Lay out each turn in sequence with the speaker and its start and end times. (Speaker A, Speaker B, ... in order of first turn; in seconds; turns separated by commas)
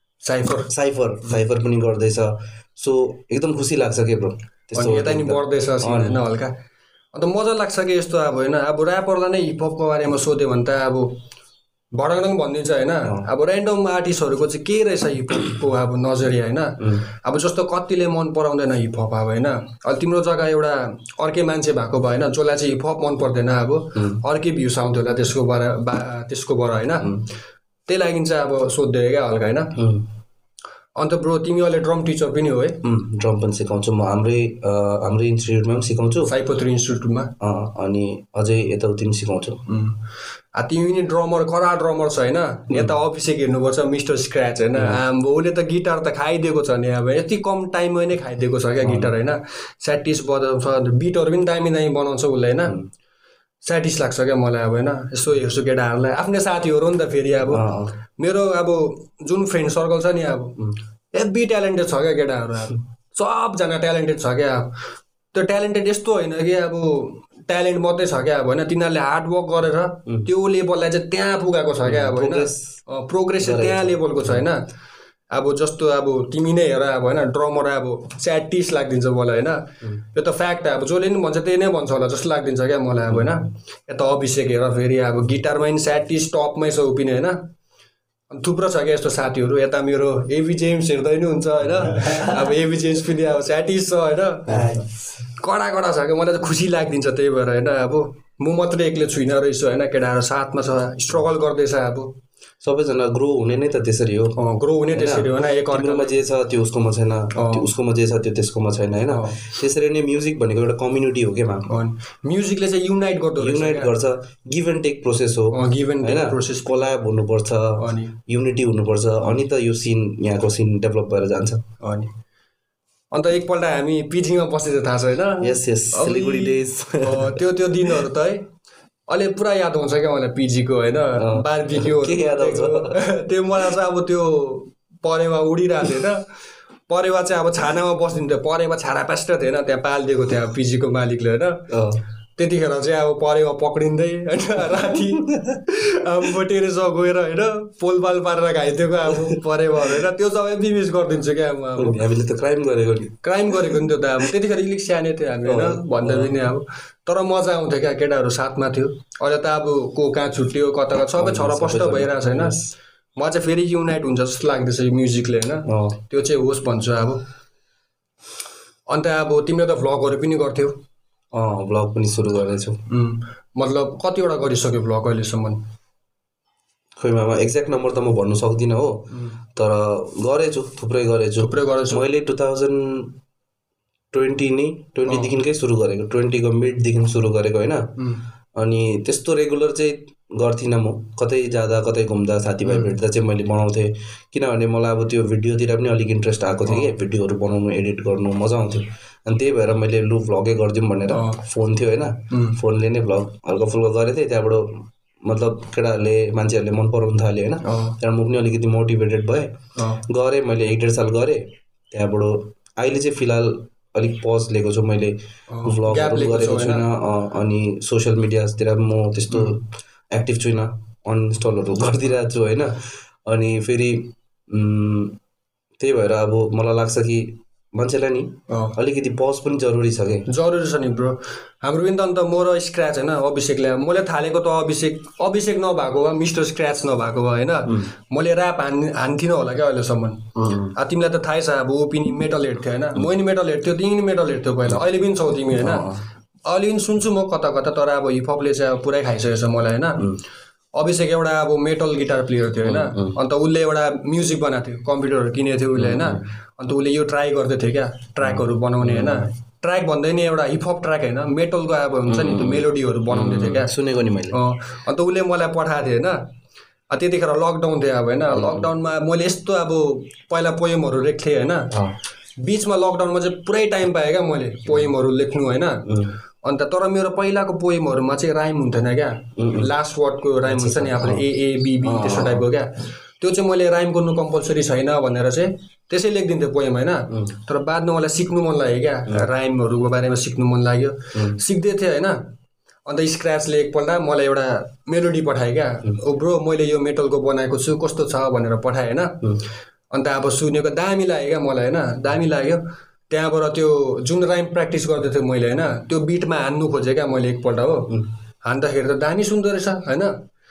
Speaker A: 0.2-0.7, Speaker B: 0.7-6.2, Speaker A: 4.7-6.5, Speaker A: 7.1-11.2, Speaker A: 11.9-27.2, Speaker B: 23.9-24.2, Speaker B: 27.0-27.2, Speaker A: 27.9-29.8, Speaker B: 29.7-30.1, Speaker A: 31.0-32.8, Speaker B: 32.8-36.3, Speaker A: 36.2-37.3, Speaker B: 37.4-39.6, Speaker A: 39.7-40.0, Speaker A: 40.5-52.8, Speaker B: 44.7-45.0, Speaker B: 48.8-49.1, Speaker A: 53.6-57.6, Speaker B: 57.5-57.9, Speaker A: 58.2-60.6, Speaker A: 61.1-64.8, Speaker A: 65.3-74.6, Speaker B: 71.8-72.8, Speaker B: 73.4-74.4, Speaker A: 75.3-87.4, Speaker A: 88.3-102.1, Speaker B: 91.9-92.5, Speaker B: 94.5-94.8, Speaker B: 102.6-104.3, Speaker A: 104.4-106.2, Speaker B: 104.9-111.7, Speaker A: 107.3-107.7, Speaker A: 109.1-109.5, Speaker A: 111.7-113.9, Speaker B: 113.4-121.7, Speaker A: 115.5-116.8, Speaker A: 117.8-118.1, Speaker A: 121.8-122.1, Speaker A: 123.1-128.5, Speaker B: 125.4-127.4, Speaker A: 129.1-136.3, Speaker B: 131.1-133.0, Speaker A: 136.9-141.7, Speaker B: 141.7-142.0, Speaker A: 142.4-152.0, Speaker B: 144.9-145.6, Speaker B: 151.8-153.2, Speaker A: 153.2-162.6, Speaker B: 155.4-156.3, Speaker B: 161.2-162.7, Speaker A: 163.2-167.2, Speaker B: 165.7-166.0, Speaker A: 168.9-170.8, Speaker B: 171.3-172.8, Speaker A: 172.9-175.6, Speaker B: 177.0-183.1, Speaker A: 179.1-179.4, Speaker A: 181.4-182.0, Speaker B: 184.1-187.9, Speaker A: 185.1-185.3, Speaker A: 188.0-188.2, Speaker B: 188.6-225.2, Speaker A: 192.7-192.9, Speaker A: 196.7-196.9, Speaker A: 201.1-201.4, Speaker A: 202.3-202.6, Speaker A: 207.6-208.0, Speaker A: 209.8-210.0, Speaker A: 215.5-216.8, Speaker B: 225.8-230.3, Speaker A: 228.5-228.8, Speaker A: 230.3-245.9, Speaker B: 240.3-240.7, Speaker B: 245.6-246.0, Speaker A: 246.5-250.1, Speaker A: 250.8-263.7, Speaker B: 252.6-253.2, Speaker B: 255.8-256.3, Speaker B: 258.2-259.3, Speaker B: 262.1-264.4, Speaker A: 264.3-266.2, Speaker A: 266.9-271.7, Speaker B: 268.3-268.7, Speaker B: 271.7-271.9, Speaker A: 272.4-275.9, Speaker B: 275.9-276.2, Speaker A: 276.4-292.2, Speaker B: 279.4-279.7, Speaker B: 280.4-281.2, Speaker B: 281.8-282.5, Speaker B: 291.1-291.4, Speaker A: 292.9-299.2, Speaker A: 299.9-310.2